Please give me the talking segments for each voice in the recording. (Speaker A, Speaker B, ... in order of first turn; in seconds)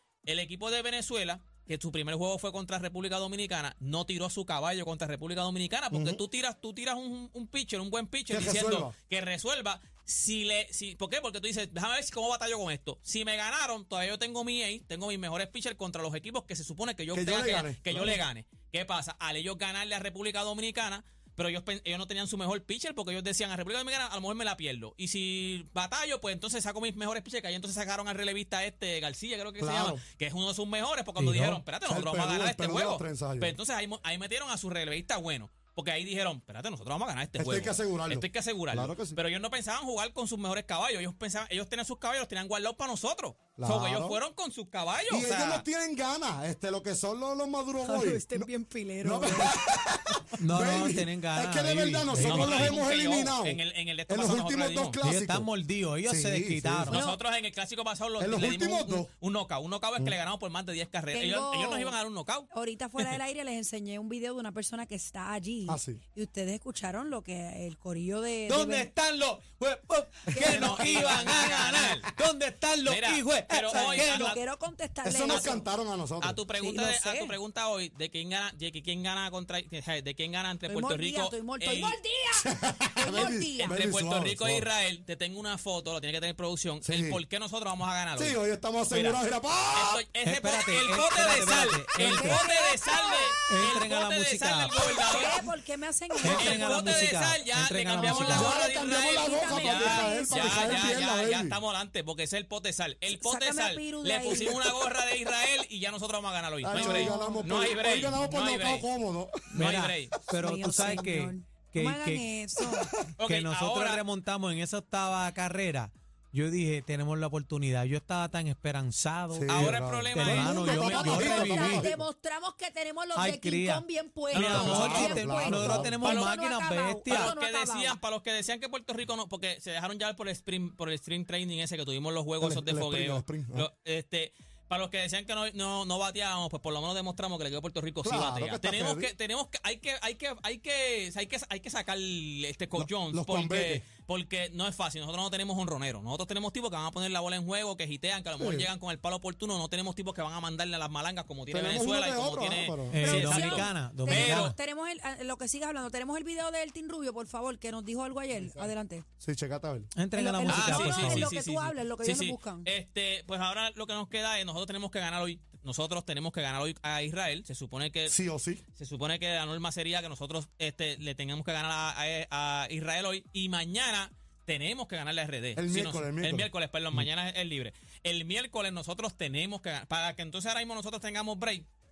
Speaker A: 0.2-45.6, 52.1-55.0, 56.9-63.2, 70.3-72.1, 72.8-74.4, 75.2-75.6, 76.2-82.0, 83.6-88.4, 88.9-89.2, 89.7-95.5, 96.2-108.9, 109.5-110.2, 113.2-114.0, 119.5-121.7, 124.3-125.1, 126.0-126.3, 127.1-154.5, 160.5-168.2, 168.8-181.7
Speaker B: 5.9-6.2, 8.3-8.9, 17.1-18.2, 29.6-30.0, 31.8-33.5, 37.4-39.2, 43.6-44.2, 45.1-48.5, 49.0-55.5, 56.0-57.0, 58.2-59.1, 65.7-66.0, 75.0-76.4, 82.4-84.7, 86.8-87.2, 88.2-90.0, 98.2-101.6, 104.3-104.6, 106.6-109.5, 119.3-122.0, 124.4-126.0, 132.4-133.7, 138.0-139.1, 142.8-143.8, 148.4-148.7, 151.5-153.0, 159.2-159.9, 168.1-168.6, 175.6-177.0
Speaker C: 31.2-31.6, 50.4-52.8, 55.0-57.0, 68.5-74.3, 90.2-92.4, 93.5-94.9, 96.2-98.5, 109.5-112.2, 113.2-121.9, 123.1-127.3, 152.9-154.6, 159.9-161.3
Speaker D: 47.8-49.6, 56.9-57.2, 61.1-61.9, 62.5-68.9, 70.3-71.1, 73.7-75.6, 76.6-77.3, 80.7-83.8, 92.0-93.3, 94.9-97.0, 98.0-101.0, 103.1-104.6, 106.7-107.5, 110.3-112.9, 120.3-128.0, 153.0-159.0, 160.1-162.7